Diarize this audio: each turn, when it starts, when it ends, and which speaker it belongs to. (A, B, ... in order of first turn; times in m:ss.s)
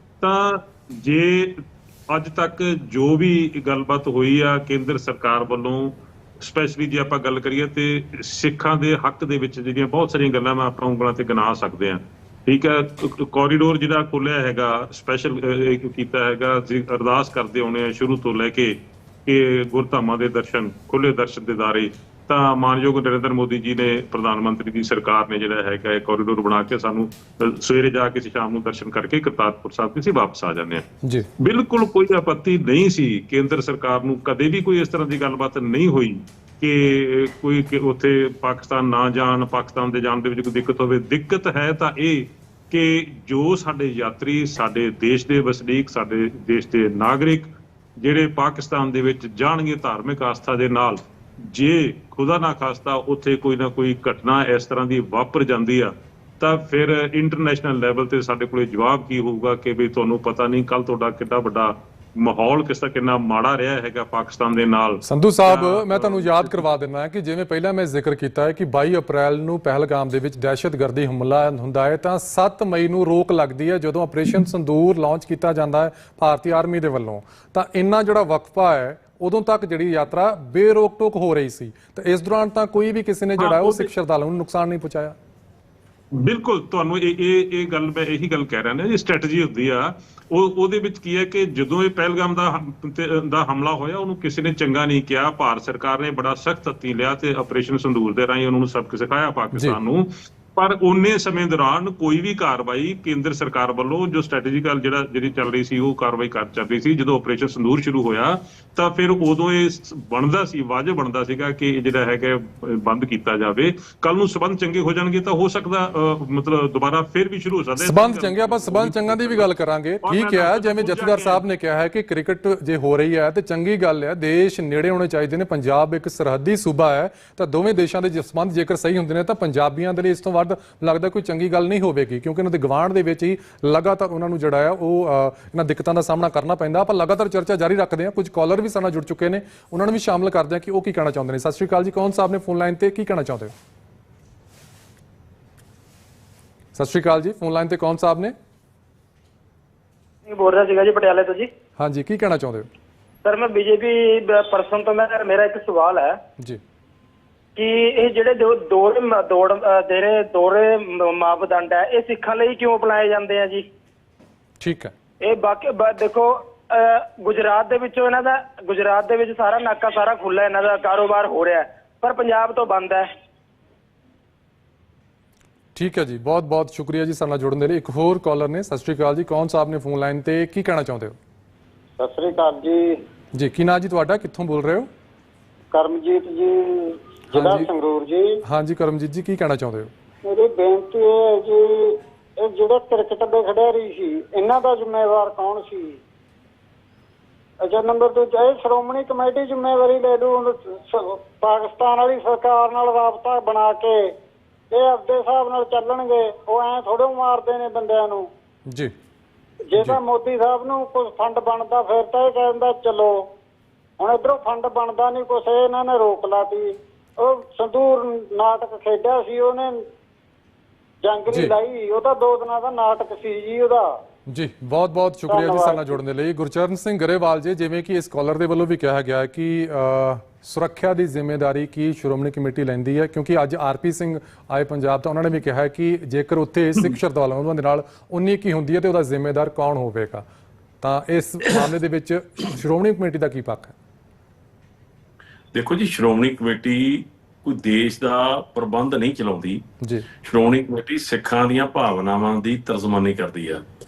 0:00.2-0:30.8 A
0:31.0-0:31.3 B
0:31.4-1:06.6 A
1:05.0-1:25.2 B
1:23.4-1:23.9 A
1:26.2-1:59.5 A
1:57.8-2:23.5 B
2:00.0-2:01.4 A
2:26.8-2:28.4 B
2:30.3-2:31.5 C
2:31.8-2:32.7 B
2:33.2-2:36.2 C
2:37.6-2:43.7 C
2:44.6-2:44.9 B
2:45.2-2:53.1 C
2:55.8-3:01.2 B
3:02.0-3:03.0 D
3:03.3-3:04.9 B
3:05.7-3:08.4 D
3:07.3-3:07.7 B
3:08.4-3:09.9 B
3:10.3-3:16.0 D
3:17.6-3:24.1 D
3:24.7-3:28.3 D
3:28.7-3:28.9 B
3:29.7-3:33.3 D
3:34.0-3:39.8 D
3:41.0-3:43.9 D
3:44.3-4:00.2 B
3:45.3-3:46.0 D
4:00.8-4:03.8 B
4:05.5-4:09.6 E
4:10.2-4:13.6 E